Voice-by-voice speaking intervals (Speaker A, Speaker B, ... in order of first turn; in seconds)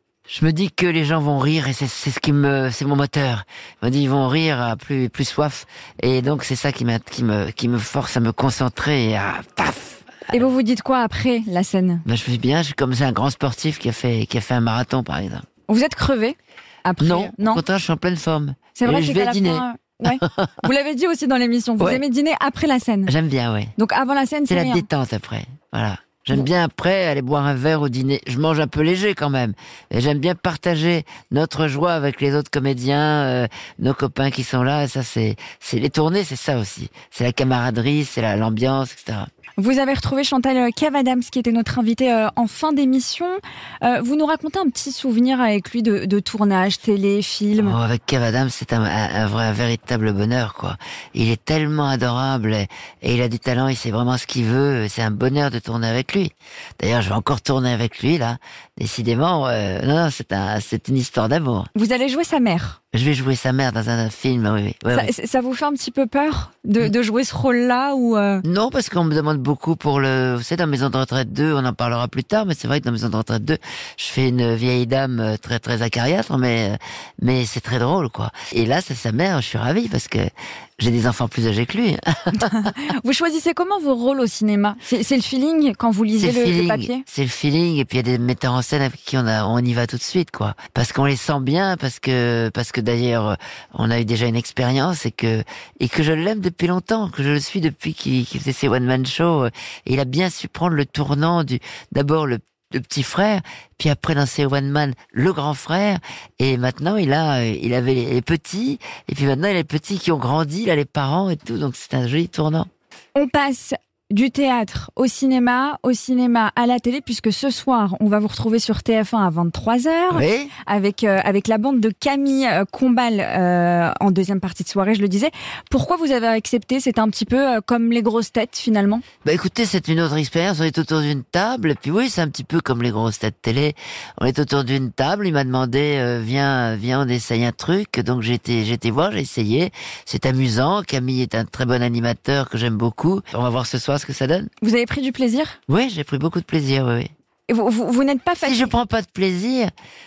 Speaker A: 0.3-10.5, 12.0-15.4, 17.0-20.6, 23.1-23.7, 24.5-39.3, 47.6-61.7, 62.9-65.1, 68.4-82.7, 86.2-112.7, 120.1-120.5, 129.2-144.5, 145.7-147.1, 148.4-149.7
Speaker B: 10.3-12.0, 15.7-17.6, 18.7-23.1, 23.8-24.9, 39.6-47.8, 61.7-62.8, 64.9-68.4, 82.4-87.0, 113.1-129.0, 144.6-145.6, 147.5-148.7